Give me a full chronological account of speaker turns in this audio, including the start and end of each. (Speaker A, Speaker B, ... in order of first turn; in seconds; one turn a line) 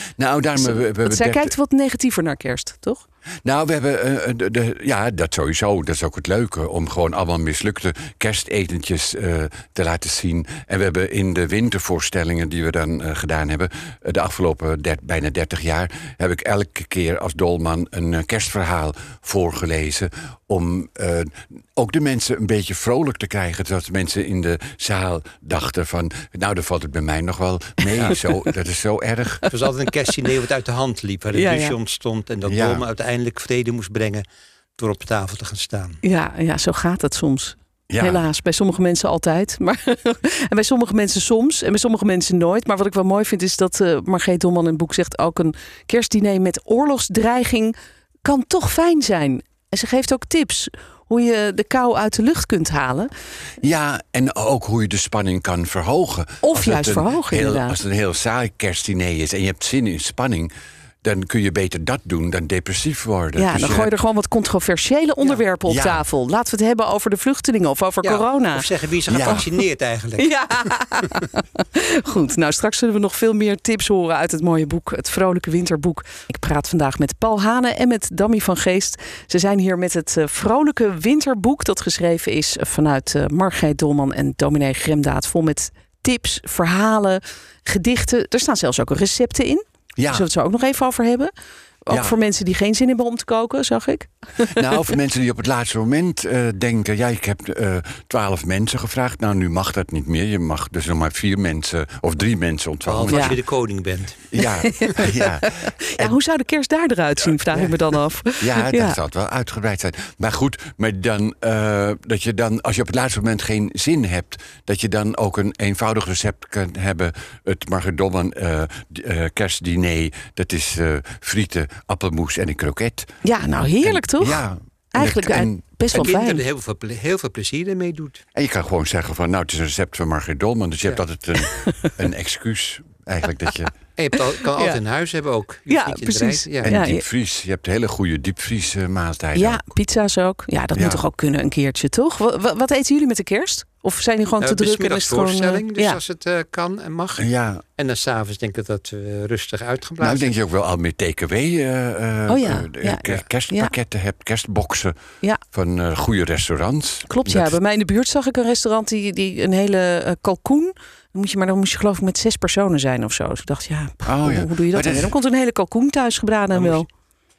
Speaker A: 0.2-1.5
Speaker B: 0.6-3.0
Speaker A: 3.4-29.4
Speaker C: 29.5-34.2
Speaker B: 31.3-31.8
Speaker A: 32.5-32.8
Speaker C: 34.8-36.0
Speaker B: 36.0-53.1
Speaker A: 37.9-38.2
Speaker A: 53.6-60.5
Speaker B: 56.4-57.8
Speaker A: 61.0-63.9
Speaker B: 63.4-68.7
Speaker A: 65.7-66.0
Speaker C: 68.0-70.7
Speaker A: 69.1-69.5
Speaker B: 70.2-91.3
Speaker A: 90.0-90.3
Speaker B: 91.8-94.6
Speaker A: 91.9-92.1
Speaker A: 94.4-103.4
Speaker C: 102.8-104.3
Speaker B: 103.1-103.4
Speaker A: 104.3-106.2
Speaker B: 104.4-109.0
Speaker A: 108.4-123.1
Speaker B: 123.2-126.4
Speaker A: 123.8-126.1
Speaker C: 125.9-128.2
Speaker A: 128.3-133.7
Speaker B: 131.4-131.9
Speaker C: 134.0-136.8
Speaker B: 135.7-137.0
Speaker A: 136.6-139.6
Speaker B: 139.3-146.0
Speaker A: 140.8-141.0
Speaker C: 144.4-150.3
Speaker A: 147.2-147.6
Speaker A: 150.0-154.9
Speaker B: 152.3-153.7
Speaker A: 155.5-157.6
Speaker B: 157.1-166.9
Speaker A: 164.0-165.1
Speaker C: 166.5-166.8